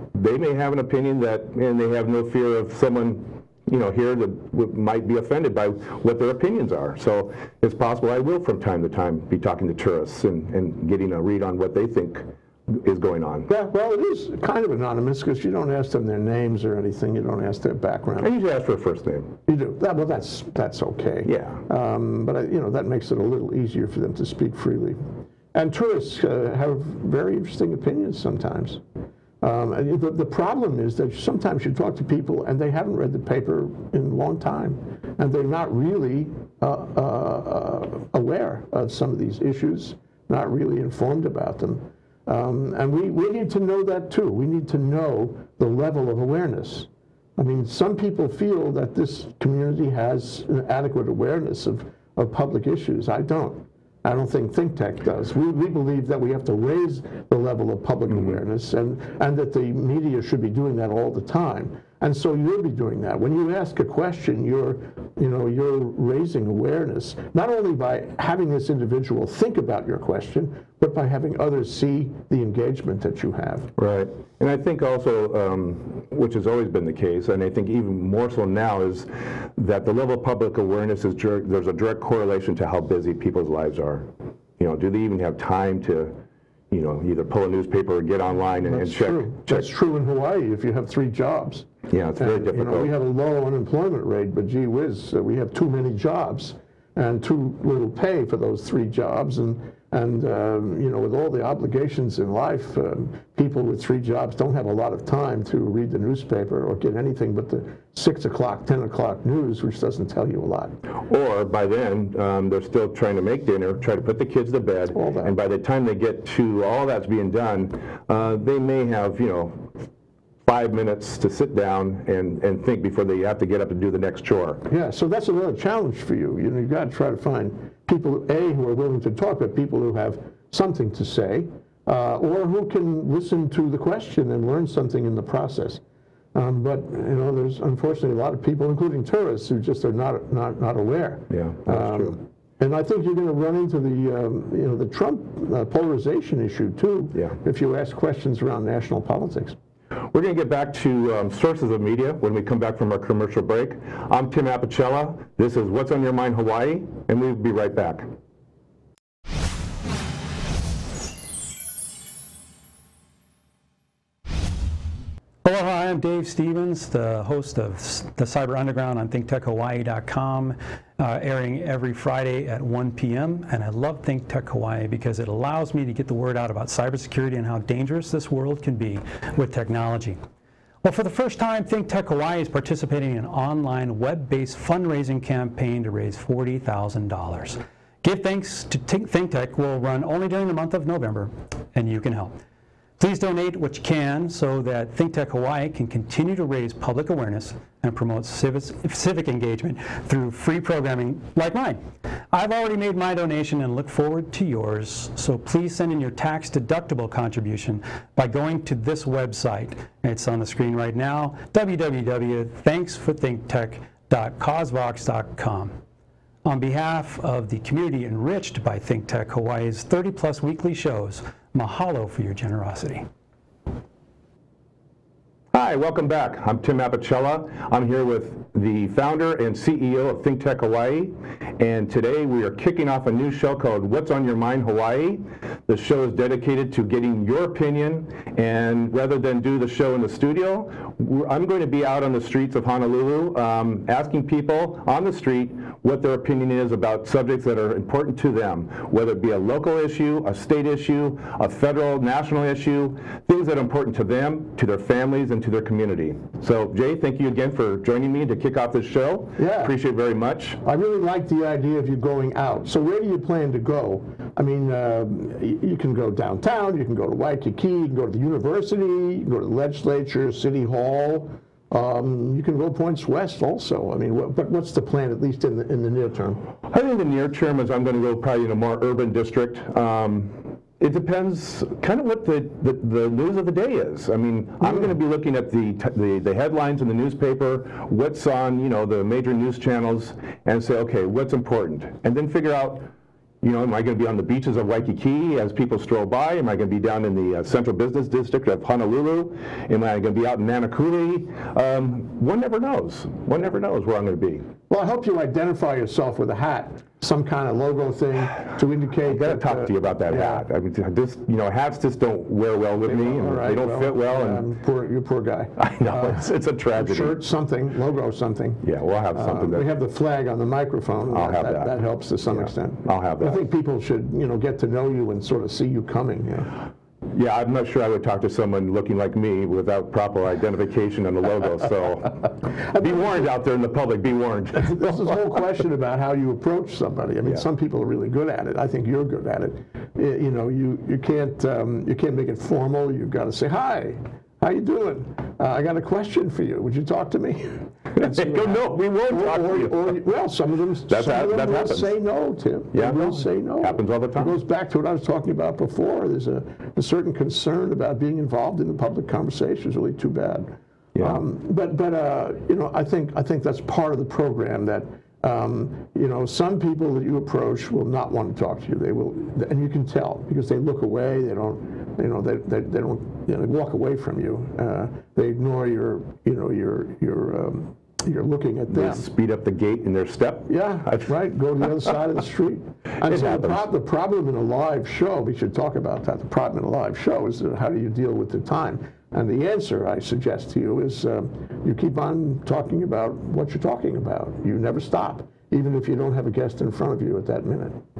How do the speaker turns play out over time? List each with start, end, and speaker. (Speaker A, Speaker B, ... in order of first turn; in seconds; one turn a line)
Speaker A: 0.1-13.5
Speaker B: 13.5-18.3
Speaker A: 18.2-19.3
Speaker B: 19.5-25.0
Speaker A: 21.2-21.6
Speaker B: 25.5-28.8
Speaker B: 29.4-73.7
Speaker A: 73.8-84.1
Speaker A: 84.6-86.1
Speaker A: 86.7-89.7
Speaker B: 88.6-110.7
Speaker A: 91.9-92.9
Speaker A: 110.9-119.7
Speaker B: 114.9-115.3
Speaker A: 120.4-124.6
Speaker B: 124.7-135.8
Speaker B: 136.3-149.6
Speaker A: 141.3-142.2
Speaker A: 150.1-158.1
Speaker C: 165.4-180.2
Speaker C: 180.8-192.3
Speaker C: 193.0-201.8
Speaker C: 202.3-215.7
Speaker C: 216.4-223.1
Speaker A: 225.5-260.6
Speaker B: 259.4-259.7
Speaker B: 260.6-276.4
Speaker A: 276.6-292.9
Speaker A: 293.4-304.4
Speaker B: 304.7-310.4
Speaker A: 309.1-314.4
Speaker B: 312.8-326.6
Speaker A: 315.6-317.2
Speaker A: 318.6-319.7
Speaker A: 321.1-321.7
Speaker A: 322.3-323.4
Speaker A: 327.1-335.2
Speaker B: 334.6-379.1
Speaker A: 347.9-349.9
Speaker A: 350.9-351.9
Speaker A: 352.7-354.4
Speaker A: 360.9-361.2
Speaker A: 378.7-381.1
Speaker B: 380.5-397.8
Speaker A: 383.0-383.6